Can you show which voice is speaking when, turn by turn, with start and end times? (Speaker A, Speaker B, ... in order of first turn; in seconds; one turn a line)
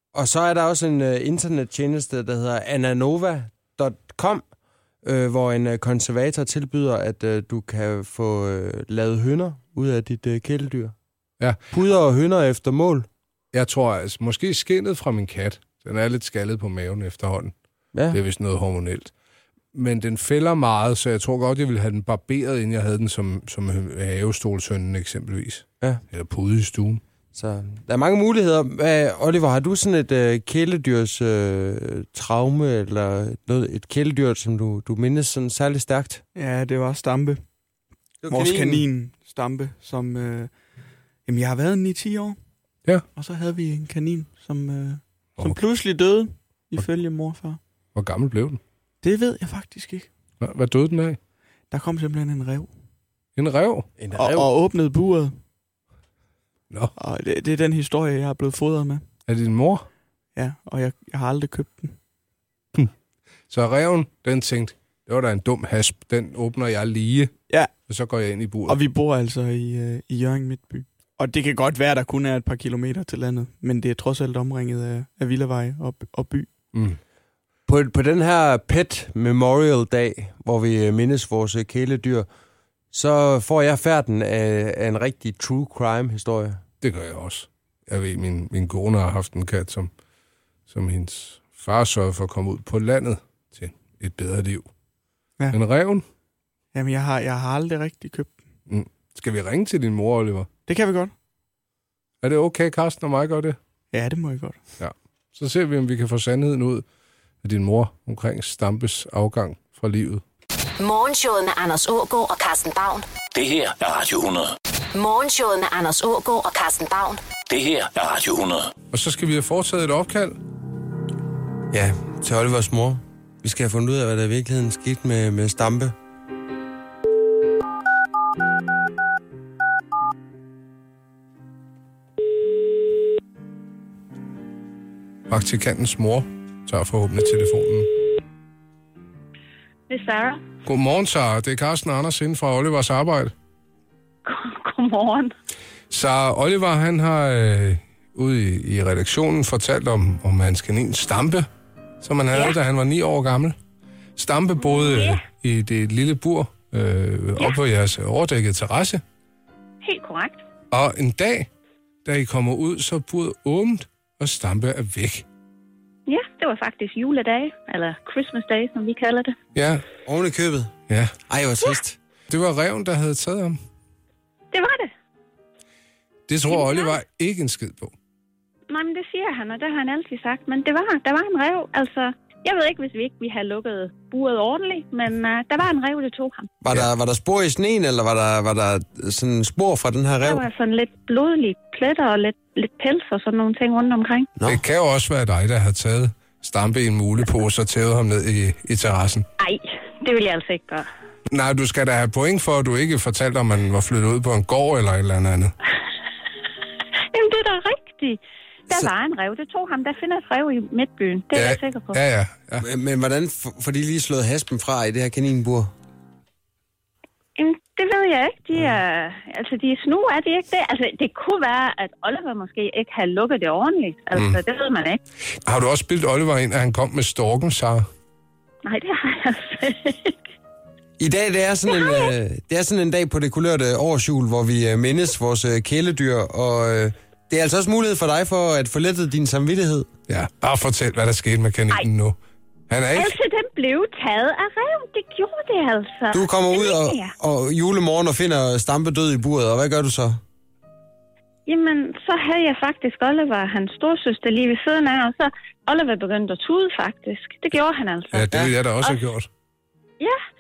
Speaker A: 0.1-4.4
Speaker A: 5.0-10.9
Speaker A: 11.7-13.1
Speaker B: 13.5-17.5
Speaker B: 18.1-19.1
Speaker B: 19.7-27.0
Speaker A: 27.3-36.2
Speaker C: 36.3-37.4
Speaker A: 38.2-38.8
Speaker C: 38.3-40.5
Speaker C: 41.2-42.4
Speaker C: 43.1-47.6
Speaker B: 47.9-48.6
Speaker C: 49.0-50.1
Speaker B: 50.4-51.2
Speaker C: 51.7-52.7
Speaker B: 53.4-53.9
Speaker A: 54.0-54.5
Speaker C: 54.1-55.3
Speaker C: 57.0-59.0
Speaker B: 59.3-59.9
Speaker C: 60.3-62.0
Speaker B: 63.5-67.3
Speaker B: 67.9-68.8
Speaker C: 68.7-76.5
Speaker B: 76.7-77.0
Speaker A: 77.7-82.3
Speaker A: 82.9-86.6
Speaker B: 86.8-89.9
Speaker B: 90.7-94.7
Speaker B: 95.5-96.0
Speaker C: 96.7-98.3
Speaker B: 98.7-100.5
Speaker C: 100.7-101.1
Speaker B: 102.2-103.6
Speaker C: 103.9-104.6
Speaker B: 104.8-106.8
Speaker B: 107.4-110.2
Speaker D: 110.8-113.0
Speaker E: 113.3-114.5
Speaker D: 114.9-117.2
Speaker E: 117.5-118.7
Speaker B: 118.9-120.4
Speaker A: 121.7-125.9
Speaker B: 135.3-137.9
Speaker F: 139.9-140.4
Speaker B: 140.7-143.3
Speaker F: 144.2-145.3
Speaker B: 145.9-151.4
Speaker B: 152.0-153.6
Speaker B: 154.2-159.0
Speaker F: 154.6-155.2
Speaker F: 159.8-160.4
Speaker B: 160.7-161.5
Speaker B: 162.0-165.2
Speaker F: 166.1-169.3
Speaker B: 169.6-169.8
Speaker A: 170.0-170.7
Speaker B: 170.9-171.2
Speaker A: 171.3-171.9
Speaker B: 172.3-173.6
Speaker F: 174.5-174.9
Speaker B: 176.3-177.9
Speaker F: 176.5-176.9
Speaker F: 178.7-186.5
Speaker A: 186.6-190.4
Speaker F: 190.2-194.3
Speaker B: 194.4-199.3
Speaker F: 199.4-200.9
Speaker B: 201.3-205.5
Speaker F: 207.1-212.0
Speaker B: 211.3-212.7
Speaker A: 212.6-215.7
Speaker F: 217.4-225.0
Speaker B: 225.4-227.8
Speaker F: 228.6-230.1
Speaker A: 231.0-239.9
Speaker F: 231.7-232.1
Speaker B: 240.1-242.2
Speaker B: 242.7-243.1
Speaker F: 242.9-247.1
Speaker A: 246.1-250.2
Speaker F: 251.5-259.0
Speaker B: 258.1-259.3